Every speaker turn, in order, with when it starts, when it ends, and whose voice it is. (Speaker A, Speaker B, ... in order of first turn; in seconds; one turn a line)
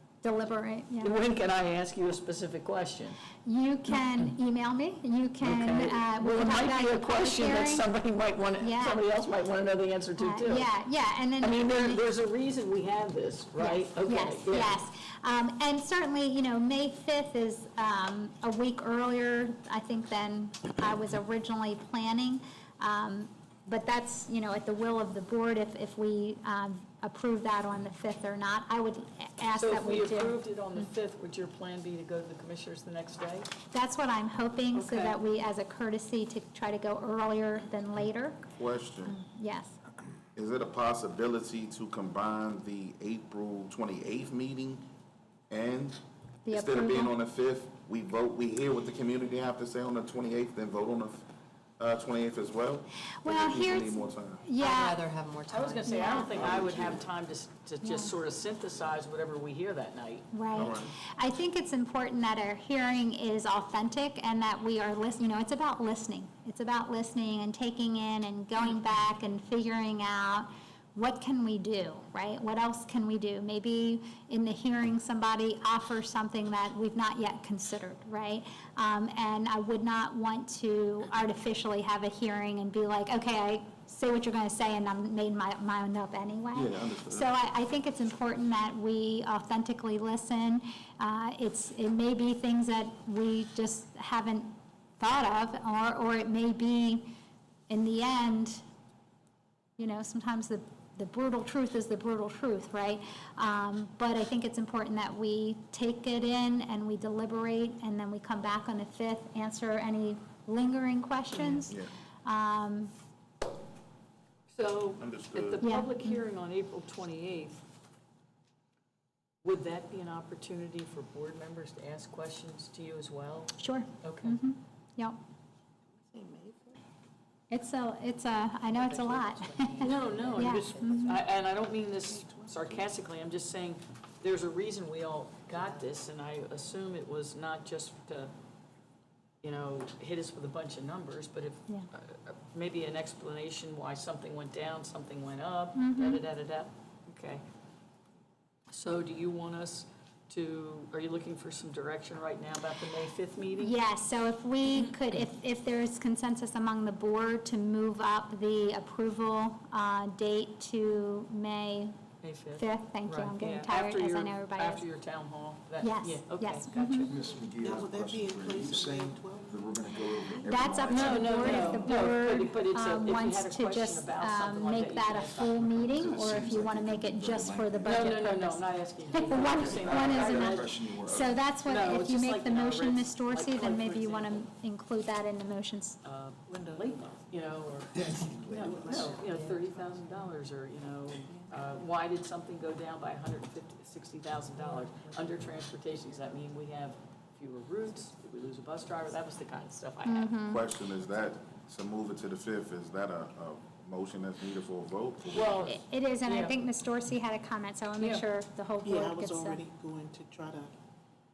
Speaker A: 0.2-1.2
Speaker B: 1.0-3.2
Speaker A: 3.4-7.9
Speaker B: 5.4-10.7
Speaker A: 8.6-9.0
Speaker A: 10.2-12.0
Speaker B: 11.4-14.8
Speaker A: 13.6-30.4
Speaker B: 29.5-33.5
Speaker A: 33.7-38.5
Speaker B: 34.7-35.2
Speaker C: 38.5-39.2
Speaker A: 39.0-39.8
Speaker C: 40.4-44.8
Speaker C: 45.5-51.2
Speaker A: 46.4-47.1
Speaker C: 51.8-54.4
Speaker A: 53.2-55.0
Speaker D: 54.6-56.5
Speaker B: 55.5-60.9
Speaker A: 55.9-56.4
Speaker C: 56.3-57.0
Speaker A: 57.8-58.1
Speaker A: 60.3-97.1
Speaker C: 60.5-60.9
Speaker C: 86.5-87.3
Speaker A: 97.7-98.6
Speaker A: 99.8-112.9
Speaker B: 111.3-111.6
Speaker B: 114.5-117.6
Speaker C: 115.0-115.6
Speaker A: 115.6-116.2
Speaker B: 119.4-124.4
Speaker A: 123.6-125.2
Speaker E: 126.0-126.8
Speaker A: 127.5-131.2
Speaker D: 128.7-131.2
Speaker B: 129.8-138.3
Speaker B: 139.4-147.4
Speaker A: 145.8-146.2
Speaker B: 148.7-153.7
Speaker A: 153.6-161.9
Speaker B: 162.2-167.1
Speaker A: 162.6-164.8
Speaker A: 165.8-167.1
Speaker F: 167.1-172.1
Speaker E: 167.6-169.7
Speaker A: 170.5-186.0
Speaker B: 170.9-175.7
Speaker F: 175.6-178.2
Speaker B: 177.8-180.8
Speaker F: 179.4-181.5
Speaker B: 181.6-184.4
Speaker B: 186.0-200.3
Speaker F: 188.0-188.9
Speaker E: 188.5-189.4
Speaker D: 188.9-190.2
Speaker A: 200.1-200.6
Speaker C: 200.5-205.6
Speaker B: 205.3-206.6
Speaker A: 205.6-209.6
Speaker E: 208.8-210.7